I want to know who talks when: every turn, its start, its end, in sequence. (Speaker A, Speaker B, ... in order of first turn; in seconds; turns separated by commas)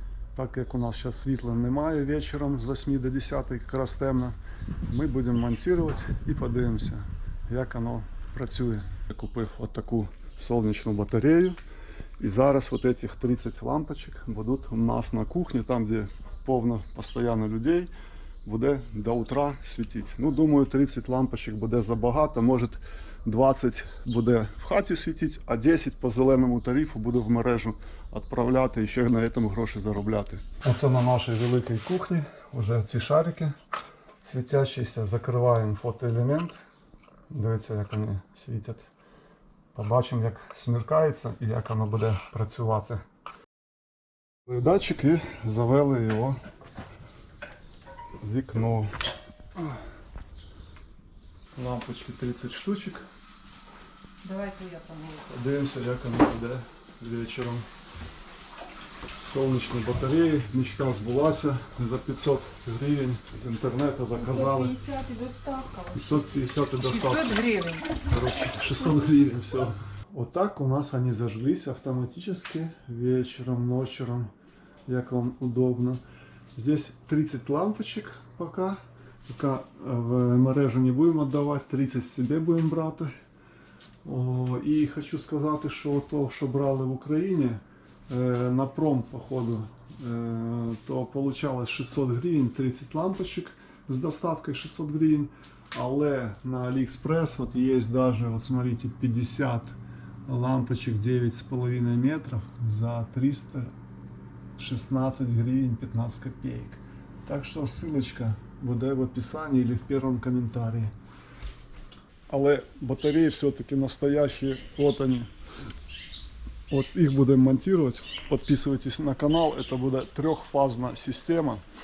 Speaker A: 0.3-4.3, Speaker A: 4.9-11.6, Speaker A: 12.2-17.9, Speaker A: 18.4-33.5, Speaker A: 34.2-36.6, Speaker A: 37.3-38.9, Speaker A: 39.7-43.0, Speaker A: 44.5-46.4, Speaker A: 48.2-48.9, Speaker A: 51.5-53.0, Speaker B: 54.2-55.3, Speaker A: 55.3-57.6, Speaker A: 59.2-64.8, Speaker B: 64.2-66.2, Speaker A: 65.9-67.4, Speaker B: 66.8-67.9, Speaker A: 68.0-74.3, Speaker A: 74.9-76.0, Speaker A: 76.5-83.1, Speaker A: 84.0-103.7, Speaker A: 104.6-110.9, Speaker A: 112.3-115.3, Speaker A: 116.7-121.6